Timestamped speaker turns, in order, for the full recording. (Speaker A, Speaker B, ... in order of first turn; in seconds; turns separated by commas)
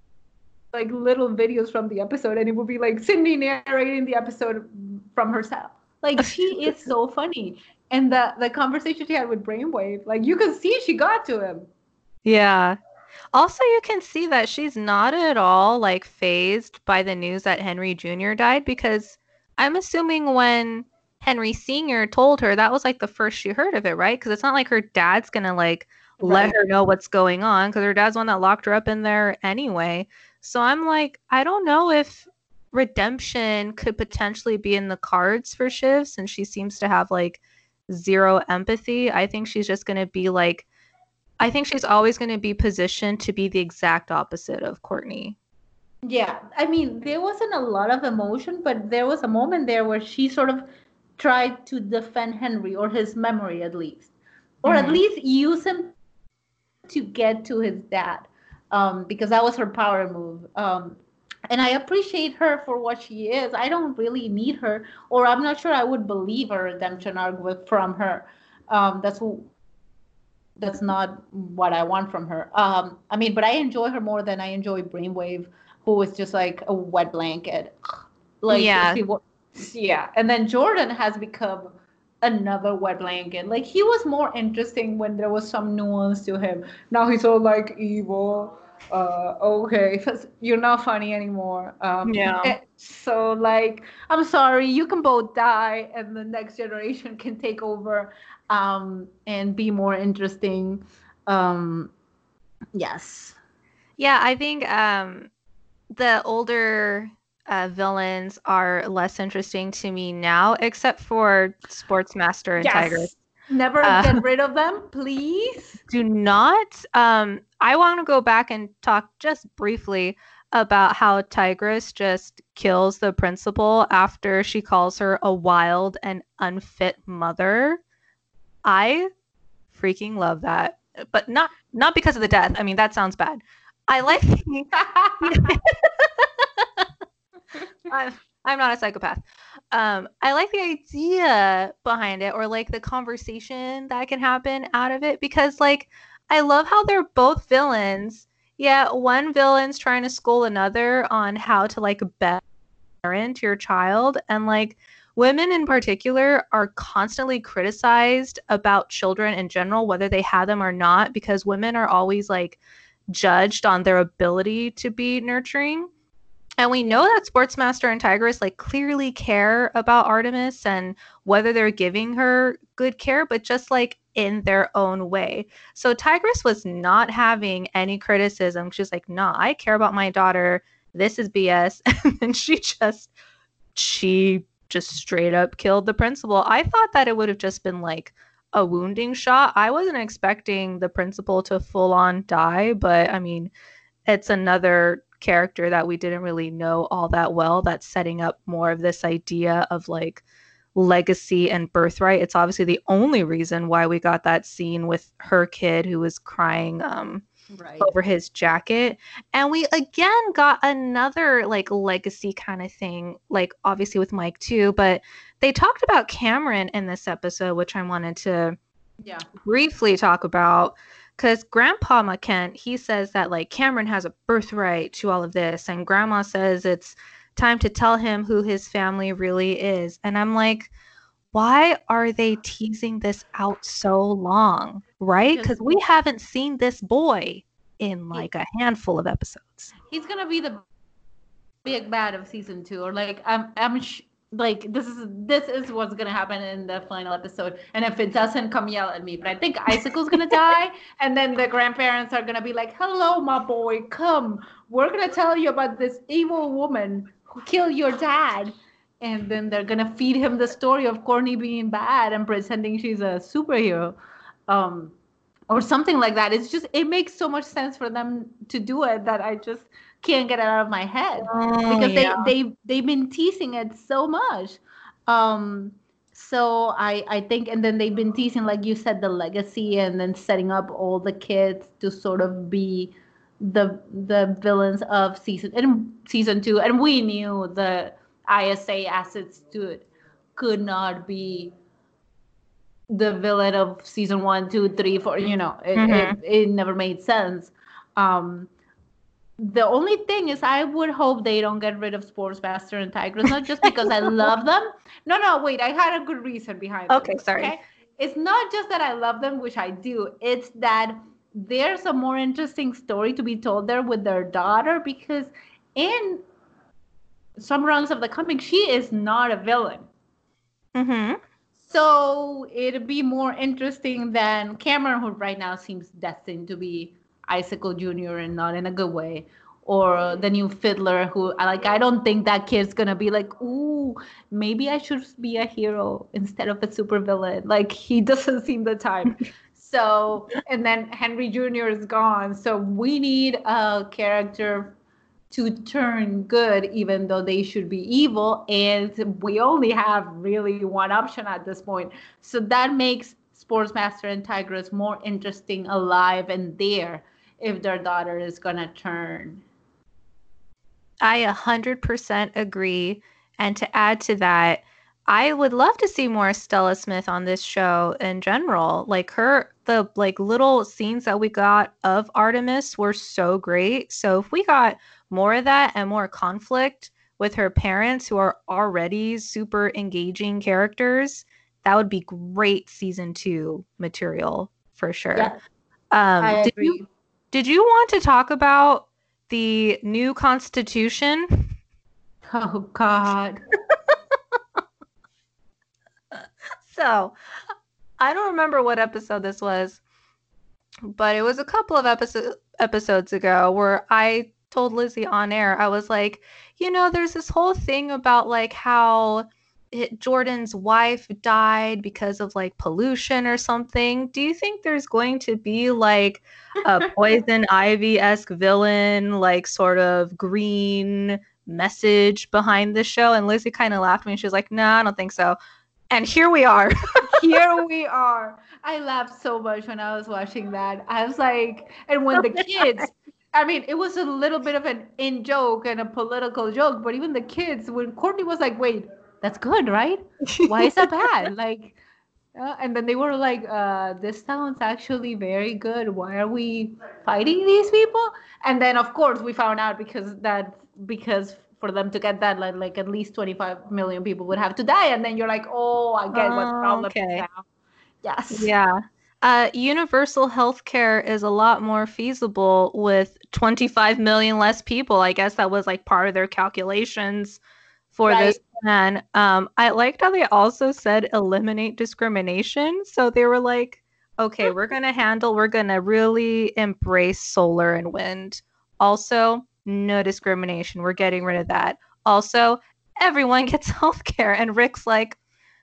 Speaker A: 0.7-11.6, Speaker B: 12.2-12.8, Speaker B: 13.3-40.6, Speaker A: 26.2-26.6, Speaker B: 41.4-45.4, Speaker A: 46.0-50.6, Speaker A: 51.2-54.1, Speaker A: 54.6-55.9, Speaker B: 54.6-55.0, Speaker A: 56.9-61.0, Speaker A: 61.5-69.5, Speaker A: 70.6-77.7, Speaker A: 78.4-81.7, Speaker B: 78.5-79.0, Speaker A: 82.2-101.9, Speaker B: 92.0-92.6, Speaker A: 102.7-103.4, Speaker B: 104.0-105.3, Speaker B: 105.9-113.1, Speaker A: 112.6-115.8, Speaker B: 113.8-114.2, Speaker B: 115.9-127.8, Speaker B: 128.6-129.1, Speaker B: 129.7-136.9, Speaker A: 134.8-135.5, Speaker B: 137.9-152.4, Speaker B: 153.0-162.6, Speaker B: 163.1-165.9, Speaker B: 166.6-183.1, Speaker B: 183.7-193.5, Speaker B: 194.1-200.2, Speaker B: 200.7-207.2, Speaker A: 207.5-207.9, Speaker B: 207.8-218.6, Speaker B: 219.4-230.7, Speaker B: 231.3-239.7, Speaker A: 235.3-235.8, Speaker A: 239.9-240.6, Speaker A: 241.6-263.9, Speaker A: 264.5-264.9, Speaker A: 265.5-291.5, Speaker B: 271.3-272.3, Speaker A: 292.9-298.5, Speaker B: 295.7-296.1, Speaker A: 299.4-316.2, Speaker B: 303.6-304.3, Speaker B: 306.9-307.6, Speaker A: 317.4-319.8, Speaker B: 320.7-321.2, Speaker A: 321.7-344.7, Speaker A: 345.3-359.4, Speaker B: 361.0-385.3, Speaker B: 385.9-386.8, Speaker A: 386.2-386.8, Speaker B: 387.3-391.5, Speaker A: 392.3-393.4, Speaker B: 396.1-397.1, Speaker B: 398.0-399.8, Speaker B: 400.9-425.4, Speaker B: 425.9-426.7, Speaker A: 427.1-441.8, Speaker B: 432.1-432.7, Speaker B: 440.3-441.1, Speaker A: 442.3-457.4, Speaker B: 456.1-457.2, Speaker A: 458.0-458.5, Speaker B: 458.3-467.4, Speaker B: 467.9-485.2, Speaker A: 468.1-468.4